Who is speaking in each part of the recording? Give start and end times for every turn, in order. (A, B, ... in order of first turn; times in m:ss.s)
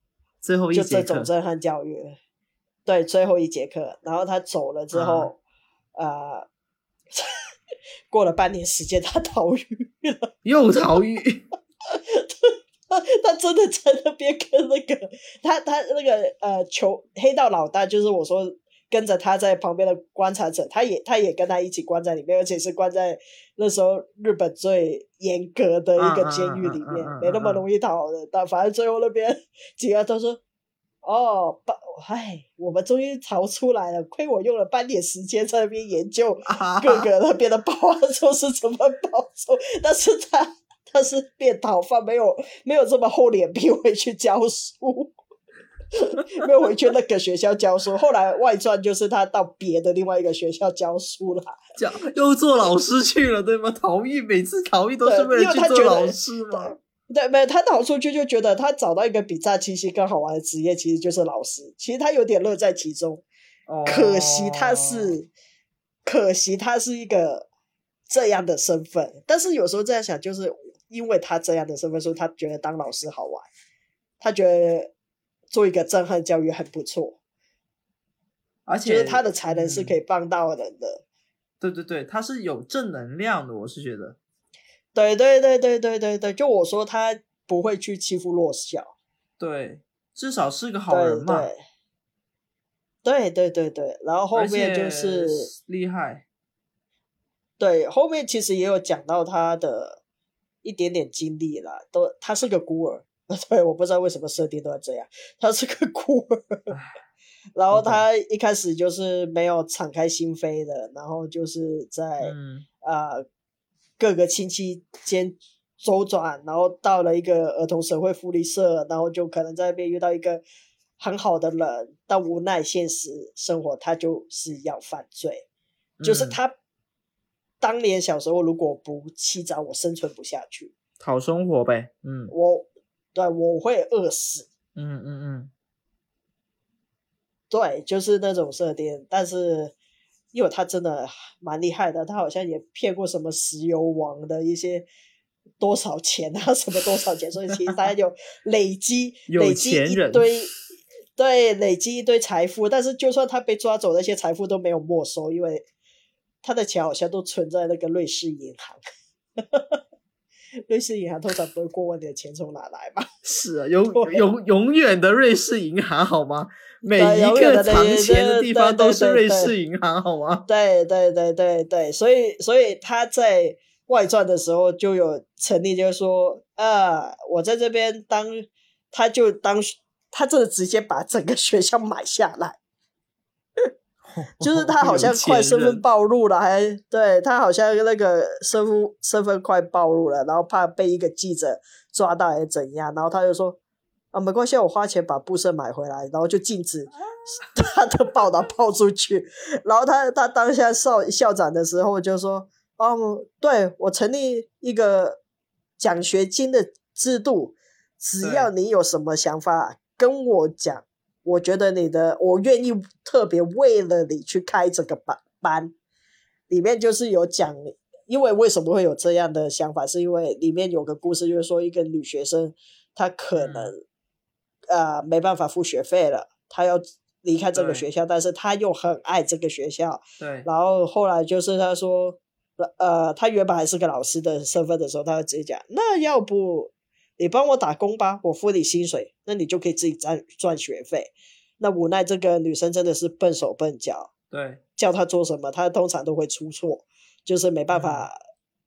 0:00.4-0:01.3 A
0:00.7-0:02.2 B
0:02.9-0:05.4 B
0:04.9-0:05.3 A
0:06.0-0:06.5 B
0:08.1-0:10.3 B
0:10.4-0:11.4 A
0:11.9-0:30.4 B
0:26.0-0:27.6 A
0:31.0-0:45.1 B
0:36.5-0:37.1 A
0:45.9-0:51.6 B
0:51.8-0:56.8 A
0:55.0-1:03.2 B
1:03.7-1:05.1 A
1:03.9-1:05.3 B
1:06.0-1:07.5 B
1:08.1-1:13.5 B
1:14.2-1:14.9 B
1:15.5-1:17.2 B
1:18.7-1:20.0 A
1:18.8-1:21.0 B
1:21.6-1:24.2 A
1:25.0-1:28.9 B
1:29.4-1:31.5 A
1:30.9-1:31.6 B
1:33.0-1:35.5 B
1:34.4-1:36.2 A
1:37.6-1:40.0 B
1:40.6-1:46.7 B
1:47.6-1:53.2 B
1:47.7-1:48.0 A
1:52.2-1:52.7 A
1:54.0-2:00.4 B
2:01.0-2:05.4 B
2:06.0-2:06.4 A
2:06.0-2:06.6 B
2:07.6-2:10.7 B
2:11.0-2:12.3 A
2:12.3-2:14.5 B
2:14.8-2:15.5 A
2:17.5-2:19.7 B
2:20.3-2:24.9 B
2:25.6-2:30.5 B
2:29.3-2:30.3 A
2:31.2-2:35.6 B
2:36.4-2:38.8 B
2:39.4-2:39.8 B
2:40.7-2:43.1 B
2:43.2-2:50.4 A
2:43.9-2:44.2 B
2:47.0-2:49.5 B
2:50.5-3:02.6 B
3:04.0-3:05.8 A
3:04.4-3:13.6 B
3:14.1-3:25.2 B
3:25.8-3:35.7 B
3:28.2-3:28.5 A
3:36.5-3:43.8 B
3:43.4-3:43.7 A
3:44.7-4:04.1 B
3:47.6-3:47.8 A
3:50.2-3:50.5 A
4:04.3-4:04.6 A
4:04.8-4:08.2 B
4:07.7-4:08.1 A